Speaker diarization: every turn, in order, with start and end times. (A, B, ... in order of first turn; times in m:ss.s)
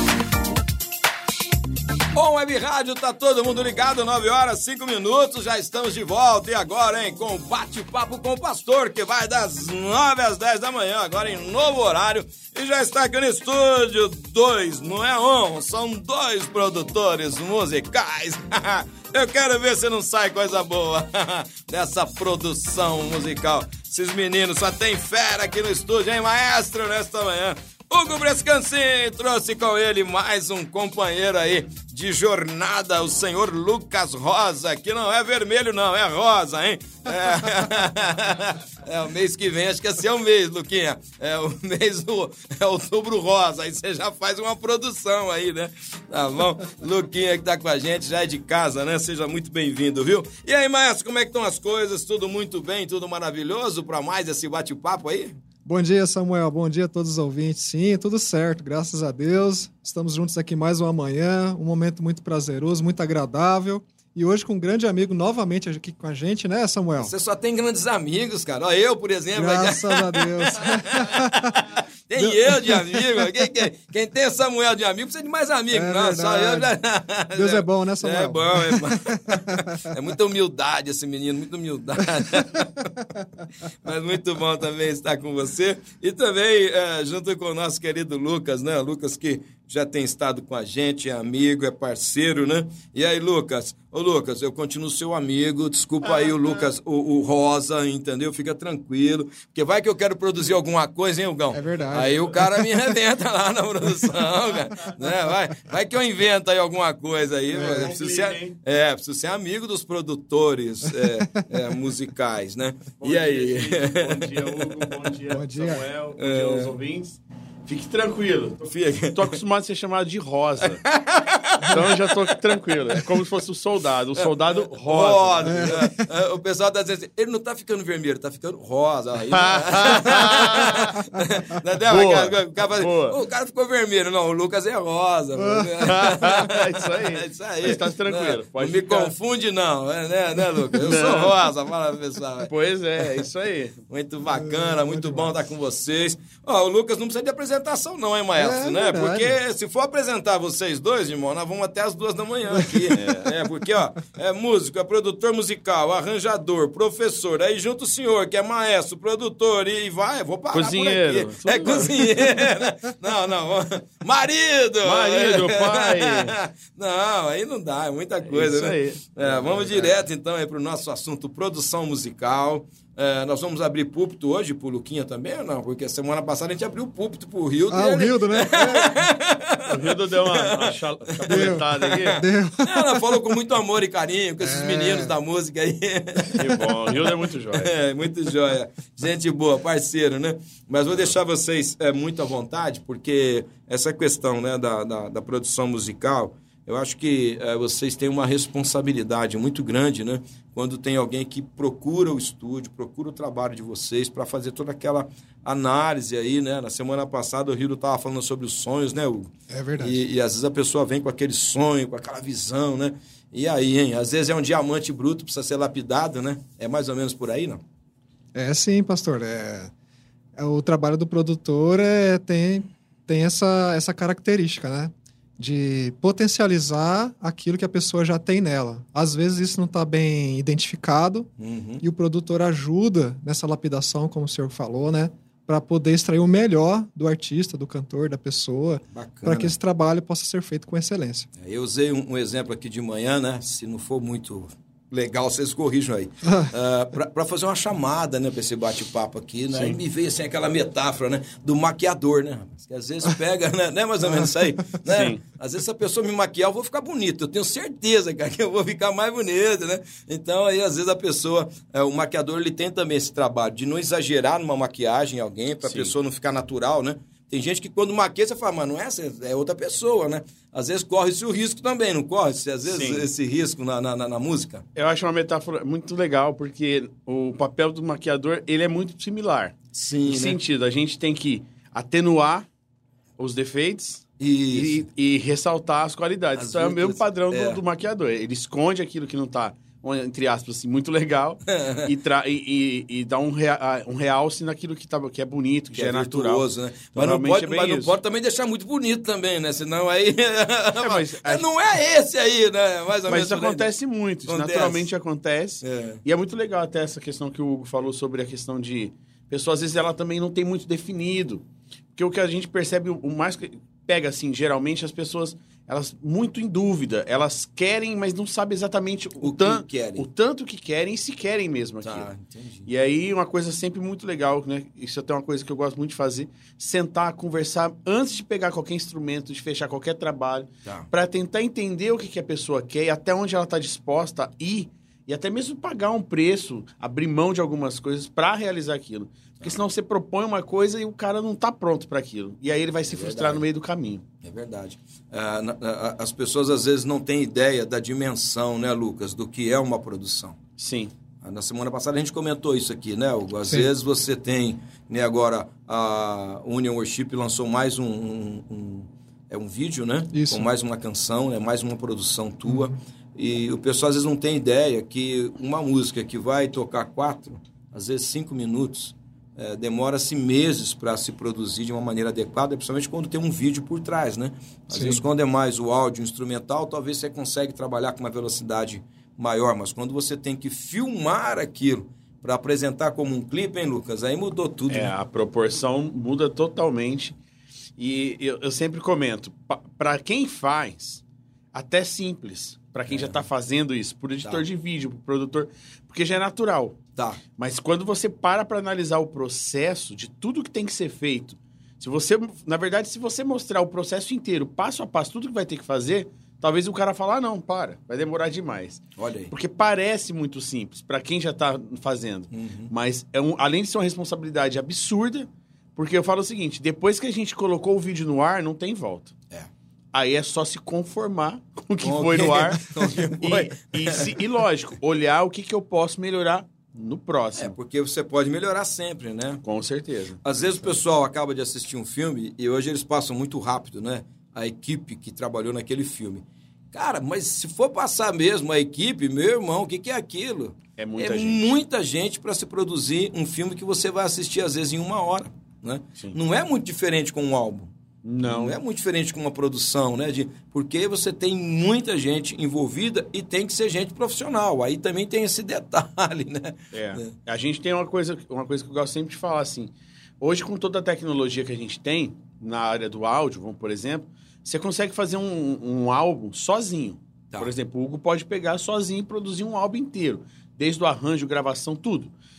0:02.2-0:55.4 A
0:55.6-1:07.1 B
1:07.0-1:23.0 A
1:09.3-1:13.3 B
1:15.7-1:16.7 B
1:17.3-1:19.8 B
1:23.8-1:55.0 A
1:41.5-1:43.0 B
1:47.5-1:48.6 C
1:47.6-1:47.9 B
1:51.0-1:51.4 B
1:53.0-2:00.8 C
1:55.3-1:55.8 B
1:56.2-1:56.7 A
1:58.6-1:59.4 A
2:00.7-2:02.2 A
2:01.6-2:05.9 C
2:04.2-2:23.1 A
2:05.4-2:06.1 B
2:09.3-2:11.0 C
2:11.9-2:13.2 C
2:15.4-2:15.7 B
2:15.8-2:19.1 C
2:20.7-2:21.3 C
2:22.5-2:23.8 C
2:23.9-3:37.6 A
2:24.4-2:25.3 B
2:28.4-2:29.4 B
2:32.6-2:32.9 B
2:32.9-2:33.3 C
2:40.5-2:42.0 C
2:44.8-2:46.4 C
2:48.2-2:50.0 C
2:57.7-2:59.0 B
2:59.7-3:02.2 C
3:01.3-3:03.1 B
3:04.4-3:05.1 B
3:06.4-3:07.7 C
3:29.5-3:30.0 B
3:38.3-3:39.7 B
3:40.4-3:51.3 B
3:51.4-3:51.8 A
3:51.8-4:01.3 B
3:58.9-3:59.5 A
4:01.4-4:34.6 A
4:09.5-4:09.8 C
4:14.9-4:15.2 C
4:25.7-4:25.9 C
4:32.7-4:33.0 C
4:34.8-4:39.6 C
4:39.7-4:40.4 A
4:40.1-4:42.5 C
4:43.2-4:57.9 C
4:44.2-4:44.9 A
4:46.4-4:47.6 A
4:51.5-4:51.9 A
4:55.8-5:03.7 A
5:00.8-5:01.4 C
5:03.1-5:11.4 C
5:04.3-5:04.9 A
5:05.6-5:06.0 A
5:12.0-5:22.1 C
5:19.2-5:20.1 A
5:21.8-5:22.7 A
5:22.7-5:44.0 C
5:42.9-5:43.4 A
5:44.2-5:50.4 A
5:50.6-5:50.9 C
5:51.2-6:24.9 A
6:00.1-6:00.5 B
6:02.5-6:02.7 B
6:14.7-6:15.0 B
6:24.7-6:27.2 C
6:27.8-6:31.0 C
6:31.5-6:36.8 C
6:32.9-6:33.2 A
6:37.4-6:59.1 C
6:49.0-6:49.3 A
6:52.3-6:52.7 A
6:59.9-7:07.6 C
7:01.8-7:04.1 A
7:07.4-7:09.4 A
7:09.4-7:10.2 C
7:10.2-7:27.7 A
7:20.8-7:21.4 C
7:28.0-7:28.6 C
7:28.2-7:37.1 A
7:36.7-7:52.1 C